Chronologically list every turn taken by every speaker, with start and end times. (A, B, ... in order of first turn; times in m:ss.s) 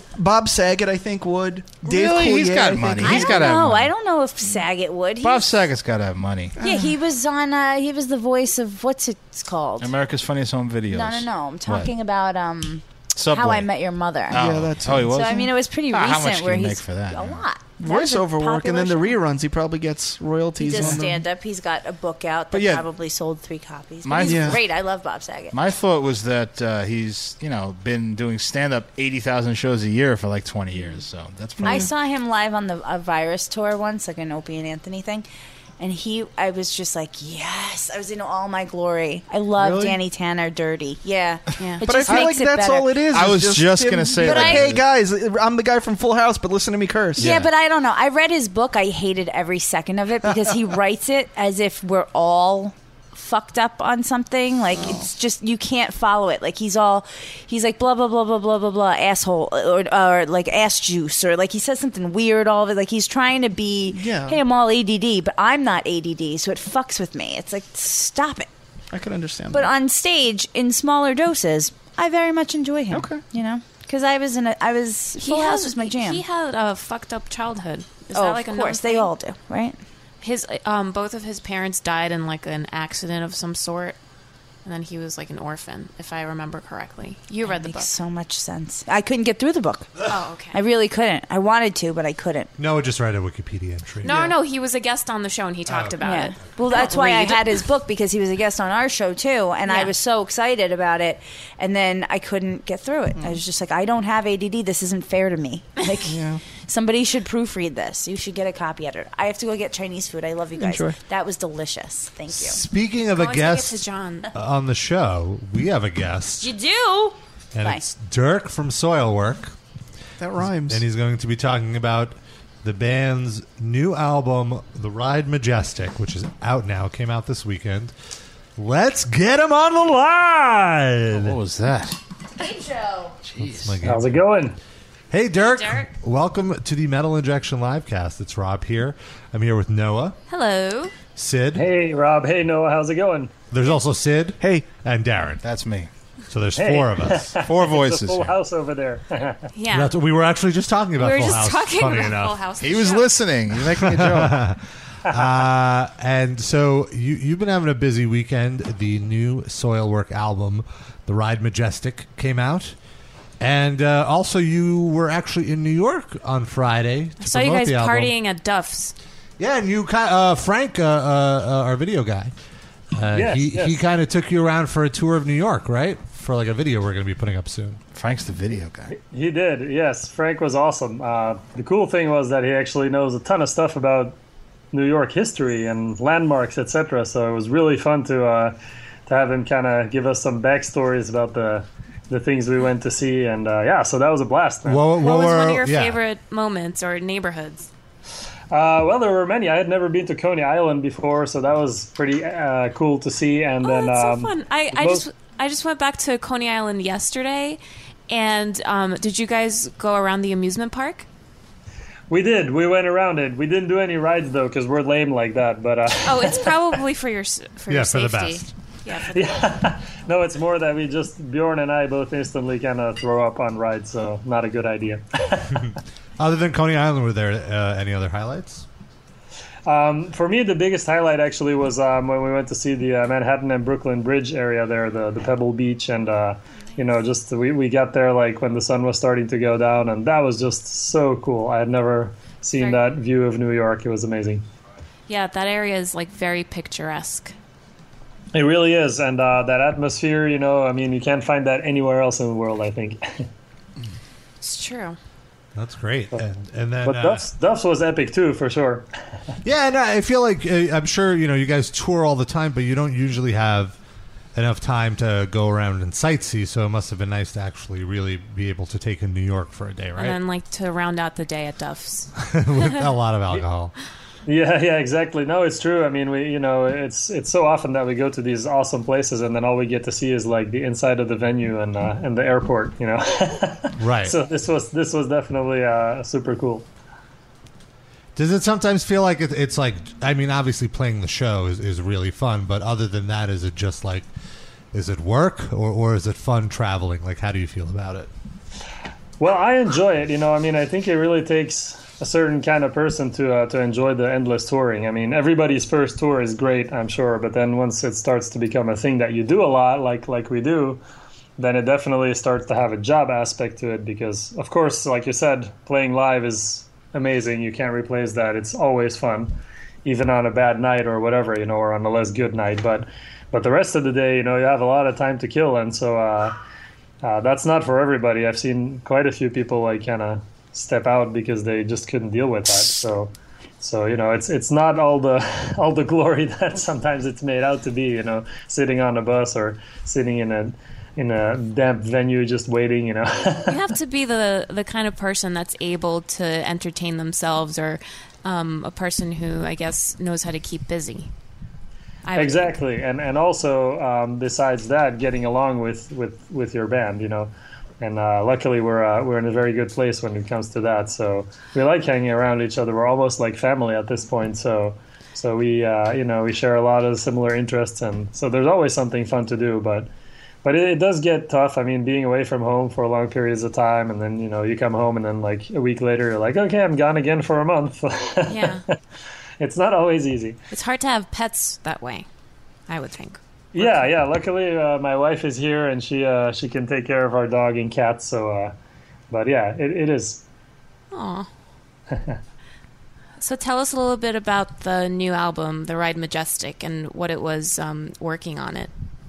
0:00.2-0:03.4 A
0:01.8-0:03.9 B
0:03.0-0:05.7 C
0:05.2-0:06.5 B
0:06.6-0:07.0 A
0:06.6-0:09.9 C
0:09.8-0:11.9 B
0:10.9-0:14.4 C
0:13.1-0:13.7 B
0:14.3-0:17.4 B
0:14.3-0:15.5 A
0:15.0-0:19.2 C
0:17.8-0:21.2 A
0:20.6-0:25.6 C
0:20.8-0:21.0 B
0:24.0-0:24.6 B
0:24.2-0:24.6 A
0:25.5-0:31.9 B
0:31.6-0:31.9 A
0:31.6-0:35.2 C
0:35.8-0:42.9 C
0:39.6-0:39.9 B
0:41.6-0:41.8 D
0:41.8-0:47.3 A
0:43.1-0:44.8 B
0:44.2-0:44.7 C
0:47.2-1:08.5 C
0:47.2-0:47.5 B
0:54.8-0:55.1 A
1:03.9-1:04.4 A
1:08.9-1:09.7 A
1:09.5-1:16.2 C
1:12.9-1:13.2 A
1:15.2-1:19.1 D
1:18.1-1:19.8 C
1:20.2-1:24.0 D
1:24.6-1:27.9 D
1:27.4-1:32.5 C
1:30.0-1:30.6 D
1:32.6-1:34.3 E
1:34.0-1:37.6 D
1:35.7-1:35.9 E
1:36.0-1:46.1 C
1:39.6-1:39.9 D
1:46.0-1:46.4 A
1:46.6-1:52.6 C
1:50.6-1:51.0 A
1:52.3-1:53.8 E
1:53.1-1:54.3 D
1:54.3-1:56.5 E
1:56.4-1:57.8 C
1:57.5-1:59.5 E
2:00.2-2:00.8 A
2:00.4-2:07.9 E
2:08.6-2:11.4 E
2:11.1-2:12.0 B
2:12.4-2:13.1 C
2:13.3-2:13.7 B
2:13.4-2:14.2 E
2:13.8-2:14.6 F
2:15.1-2:20.2 E
2:15.4-2:15.9 D
2:20.3-2:20.9 D
2:21.1-2:21.6 E
2:21.5-2:23.4 F
2:23.5-2:25.4 E
2:24.4-2:24.6 A
2:25.4-2:25.9 B
2:26.3-2:27.3 E
2:26.6-2:29.5 F
2:27.4-2:28.3 B
2:29.5-2:29.9 D
2:29.7-2:32.4 E
2:31.0-2:33.2 D
2:32.6-2:34.4 B
2:33.6-2:42.8 E
2:43.4-2:48.1 E
2:47.2-2:48.9 D
2:49.4-2:52.3 E
2:52.9-2:57.8 E
2:53.1-2:53.8 F
2:57.9-2:58.9 B
2:58.9-3:04.2 F
3:04.7-3:08.5 F
3:09.1-3:14.9 F
3:14.6-3:16.0 E
3:15.0-3:17.7 D
3:18.5-3:25.0 F
3:23.6-3:31.0 D
3:32.1-3:36.5 F
3:36.0-3:39.3 D
3:37.7-3:38.4 E
3:39.1-3:45.7 F
3:46.2-3:48.6 E
3:49.6-4:04.4 F
4:02.6-4:02.9 D
4:05.1-4:07.3 D
4:08.3-4:13.3 F
4:14.4-4:15.0 D
4:15.6-4:17.2 E
4:16.8-4:18.8 F
4:19.4-4:23.8 E
4:24.3-4:30.2 E
4:30.0-4:32.1 D
4:32.2-4:33.7 E
4:34.2-4:46.7 F
4:43.8-4:44.2 E
4:48.2-4:54.1 E
4:54.7-4:58.1 E
4:59.2-5:10.8 F
5:11.4-5:26.4 F
5:27.0-5:43.6 F
5:43.5-5:51.1 D
5:52.0-5:52.5 D
5:52.2-6:09.9 F
6:10.4-6:18.8 F
6:18.3-6:18.6 D
6:19.4-6:20.4 F
6:20.5-6:22.1 D
6:22.7-6:23.8 D
6:23.5-6:28.5 F
6:29.1-6:30.2 F
6:30.9-6:31.3 D
6:31.9-6:32.2 F
6:33.2-6:38.7 D